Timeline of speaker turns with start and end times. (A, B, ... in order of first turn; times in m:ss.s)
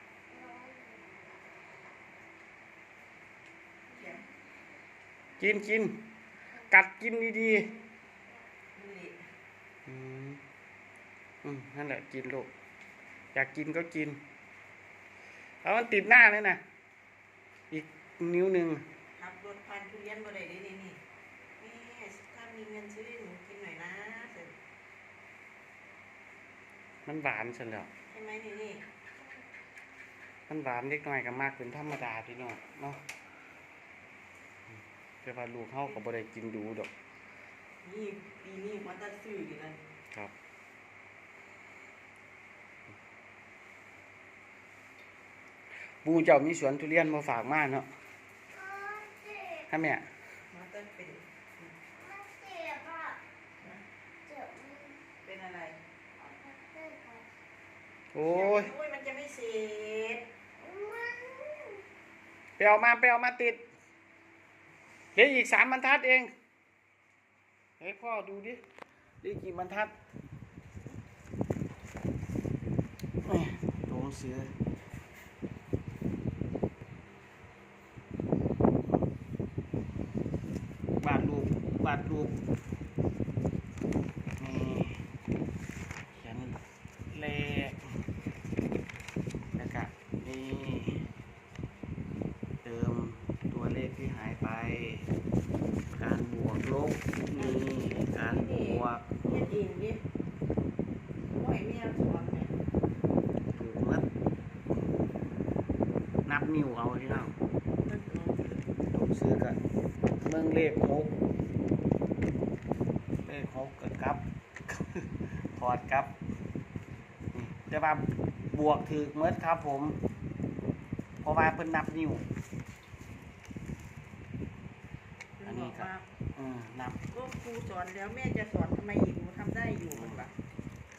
0:00.3-0:01.4 A
0:03.9-0:04.2 B
0:05.4-0:06.1 C
0:06.7-0:07.7 C
0:08.8-0:09.2 B
0:09.9-0:10.4 C
0:11.4-0:12.5 C
0:13.3-0:14.2 C
0:15.6-0:16.6 C
0:17.7-0:18.8 C
0:19.2-0:21.0 B
0:21.6-0:24.6 B
0:27.1-0:27.9 C
0:28.1-0:28.8 B
0:30.5-0:33.0 C
0:35.2-0:36.9 C
0:37.8-0:39.8 B
0:46.0-0:47.9 C
0:48.5-0:49.7 A
0:49.7-0:50.1 C
0:50.5-0:51.7 B
0:52.0-0:53.2 A
0:54.3-0:55.0 A
0:55.2-0:55.8 B
0:56.2-0:57.3 A
0:58.1-0:58.7 C
0:58.3-1:00.2 B
1:00.6-1:01.8 A
1:02.6-1:03.6 C
1:05.2-1:06.3 C
1:07.8-1:08.6 C
1:09.2-1:09.9 C
1:13.2-1:14.5 C
1:18.8-1:19.1 C
1:21.0-1:22.4 C
1:24.4-1:25.0 C
1:26.1-1:27.8 C
1:29.6-1:31.0 C
1:32.6-1:35.1 C
1:35.9-1:39.4 C
1:37.3-1:40.0 B
1:41.4-1:42.5 B
1:43.5-1:44.1 C
1:46.3-1:47.3 C
1:47.8-1:48.7 B
1:48.9-1:49.6 C
1:50.2-1:51.2 C
1:53.2-1:56.1 C
1:57.3-2:00.0 C
2:01.2-2:02.2 C
2:05.4-2:06.1 B
2:05.4-2:07.0 C
2:07.1-2:10.3 B
2:10.0-2:10.2 C